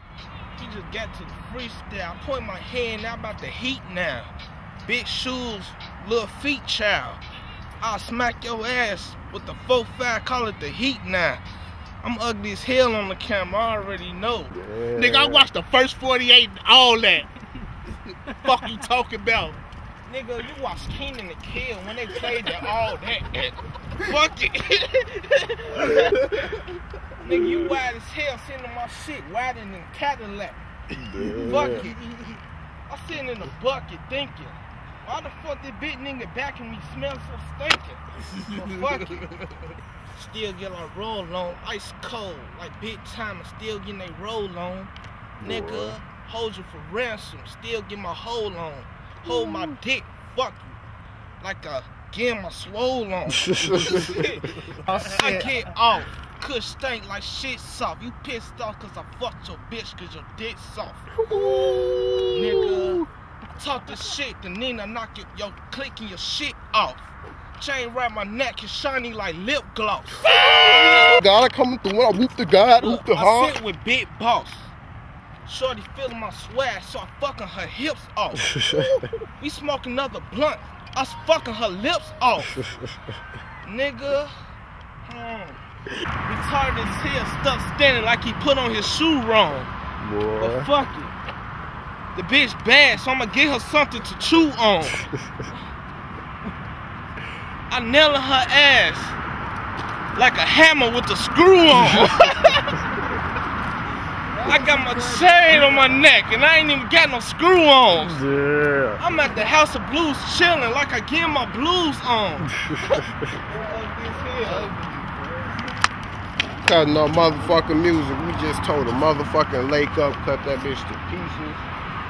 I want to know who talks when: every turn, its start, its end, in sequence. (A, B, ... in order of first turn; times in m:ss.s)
0:00.6-0:04.3 A
0:04.8-0:07.2 A
0:07.8-0:11.4 A
0:12.0-0:14.6 A
0:14.5-0:15.5 B
0:14.9-0:17.3 C
0:18.1-0:19.6 C
0:20.1-0:26.3 A
0:25.9-0:26.4 C
0:27.2-0:30.6 A
0:31.0-0:31.9 B
0:31.2-0:32.4 C
0:31.4-0:32.0 A
0:32.9-0:39.3 A
0:40.2-0:50.8 A
0:45.4-0:46.0 B
0:49.3-0:49.7 B
0:51.4-1:01.1 A
0:53.4-0:54.1 B
0:54.8-0:55.6 C
1:01.2-1:03.0 B
1:02.3-1:11.2 A
1:10.9-1:13.6 B
1:12.8-1:14.7 A
1:15.5-1:18.6 A
1:18.6-1:18.9 B
1:19.4-1:22.6 A
1:23.6-1:24.3 A
1:25.0-1:25.6 A
1:26.3-1:29.7 A
1:30.0-1:30.7 B
1:30.4-1:31.2 A
1:32.1-1:35.1 A
1:37.7-1:39.2 A
1:40.2-1:42.7 A
1:41.7-1:42.0 B
1:44.3-1:45.5 C
1:44.4-1:48.2 A
1:48.0-1:49.0 B
1:49.0-1:54.8 A
1:54.4-1:55.5 C
1:56.6-2:01.7 B